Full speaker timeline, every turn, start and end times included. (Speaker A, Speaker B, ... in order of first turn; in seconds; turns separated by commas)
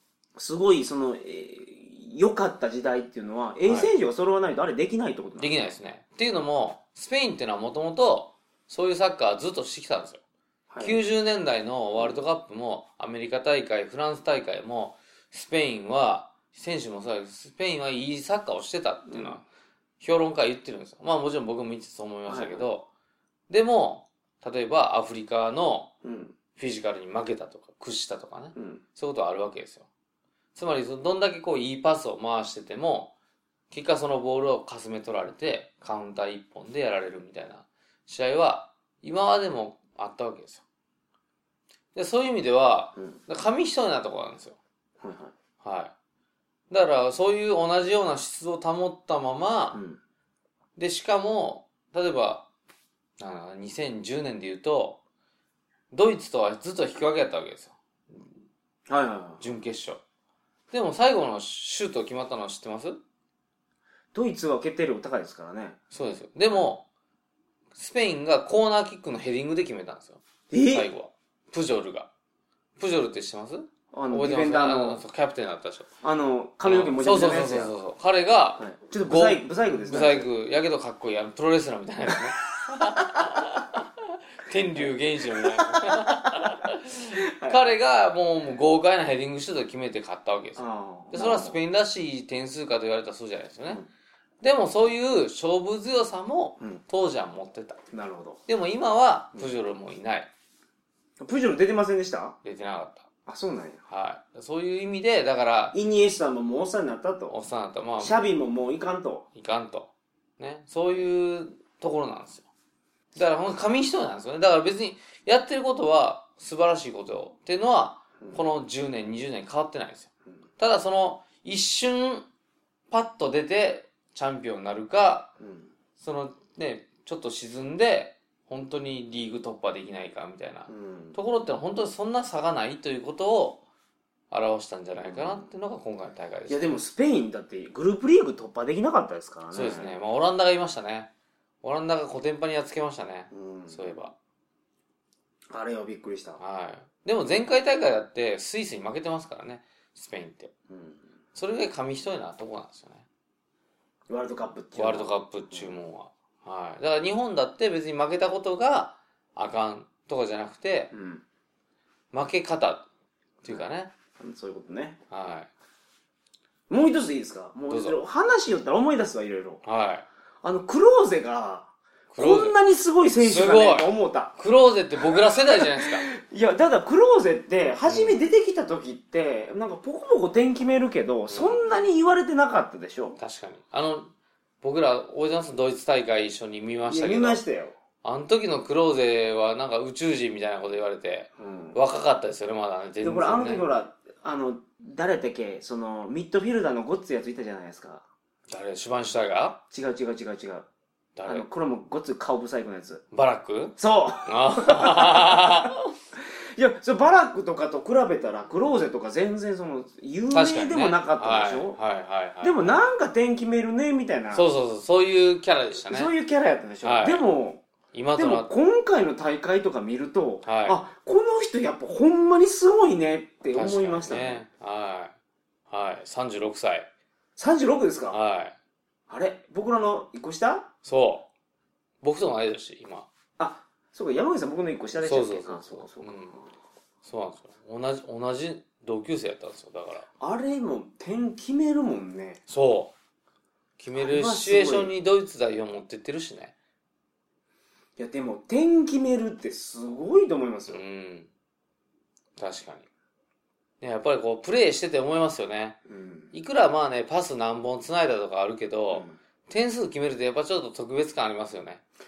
Speaker A: 0.4-5.6, Speaker B: 3.6-3.9, Speaker B: 5.4-10.2, Speaker A: 10.7-11.0, Speaker B: 10.8-19.4, Speaker A: 19.1-19.4, Speaker B: 20.0-22.9, Speaker A: 22.3-22.7, Speaker B: 23.5-25.9, Speaker A: 26.0-26.4, Speaker B: 26.6-29.9, Speaker A: 28.6-28.8, Speaker B: 30.6-33.1, Speaker B: 33.7-40.6, Speaker B: 41.9-44.6, Speaker A: 45.0-45.3, Speaker B: 45.6-45.9, Speaker B: 46.7-49.8, Speaker A: 49.7-50.0, Speaker B: 50.8-52.5, Speaker B: 53.2-55.0, Speaker B: 55.9-58.3, Speaker A: 58.9-59.4, Speaker B: 59.4-60.0, Speaker B: 60.7-63.0, Speaker A: 64.1-65.8, Speaker B: 65.9-66.8, Speaker B: 67.8-72.1, Speaker A: 70.5-70.9, Speaker B: 72.8-75.9, Speaker A: 73.9-75.0, Speaker A: 76.0-77.8, Speaker B: 76.6-93.8, Speaker A: 78.6-80.3, Speaker A: 85.6-86.1, Speaker A: 87.1-87.7, Speaker A: 90.6-91.6, Speaker B: 94.4-97.8, Speaker A: 97.9-98.4, Speaker B: 98.5-100.3, Speaker A: 101.2-102.4, Speaker B: 102.4-103.1, Speaker A: 103.3-103.8, Speaker B: 103.9-105.8, Speaker A: 105.7-107.4, Speaker B: 107.3-108.3, Speaker A: 108.0-109.3, Speaker B: 109.3-112.5, Speaker B: 113.2-122.3, Speaker B: 122.9-125.4, Speaker A: 125.4-125.7, Speaker B: 126.0-133.6, Speaker A: 130.7-131.2, Speaker B: 134.3-136.8, Speaker A: 135.1-135.4, Speaker A: 136.5-140.0, Speaker B: 139.5-141.1, Speaker B: 141.6-144.2, Speaker A: 143.3-143.9, Speaker A: 145.5-146.4, Speaker B: 146.4-150.5, Speaker A: 150.7-151.0, Speaker B: 151.3-153.1, Speaker A: 154.1-155.8, Speaker B: 154.8-160.9, Speaker A: 160.9-161.2, Speaker B: 162.1-162.9, Speaker B: 163.4-163.9, Speaker A: 164.2-165.0, Speaker B: 165.1-165.5, Speaker A: 166.7-169.6, Speaker B: 167.7-168.0, Speaker B: 169.6-170.1, Speaker A: 170.4-174.3, Speaker B: 172.1-172.6, Speaker B: 173.2-176.1, Speaker A: 175.3-183.2, Speaker B: 177.9-178.2, Speaker B: 181.3-181.6, Speaker B: 183.2-187.4, Speaker A: 186.9-187.7, Speaker B: 188.0-193.7, Speaker A: 191.4-191.8, Speaker A: 193.0-198.1, Speaker B: 198.5-199.6, Speaker A: 199.7-200.7, Speaker B: 201.2-201.5, Speaker A: 201.3-203.0, Speaker B: 203.1-205.9, Speaker A: 203.8-205.6, Speaker A: 206.6-211.8, Speaker B: 210.3-212.7, Speaker A: 212.4-214.4, Speaker B: 214.3-216.1, Speaker A: 215.7-217.6, Speaker B: 216.8-217.3, Speaker B: 217.9-218.5, Speaker A: 218.2-224.4, Speaker B: 220.4-220.8, Speaker B: 223.5-225.1, Speaker B: 225.7-226.9, Speaker A: 227.4-228.2, Speaker B: 228.1-228.5, Speaker A: 229.1-230.7, Speaker B: 230.8-231.3, Speaker B: 232.0-233.1, Speaker A: 233.4-236.5, Speaker B: 235.0-236.4, Speaker B: 237.0-240.1, Speaker A: 240.2-242.4, Speaker B: 242.5-242.9, Speaker B: 243.8-246.5, Speaker A: 244.0-244.9, Speaker A: 248.0-250.8, Speaker B: 250.7-251.3, Speaker B: 252.4-252.9, Speaker B: 253.8-255.8, Speaker A: 255.9-256.3, Speaker B: 256.3-261.8, Speaker A: 258.9-259.2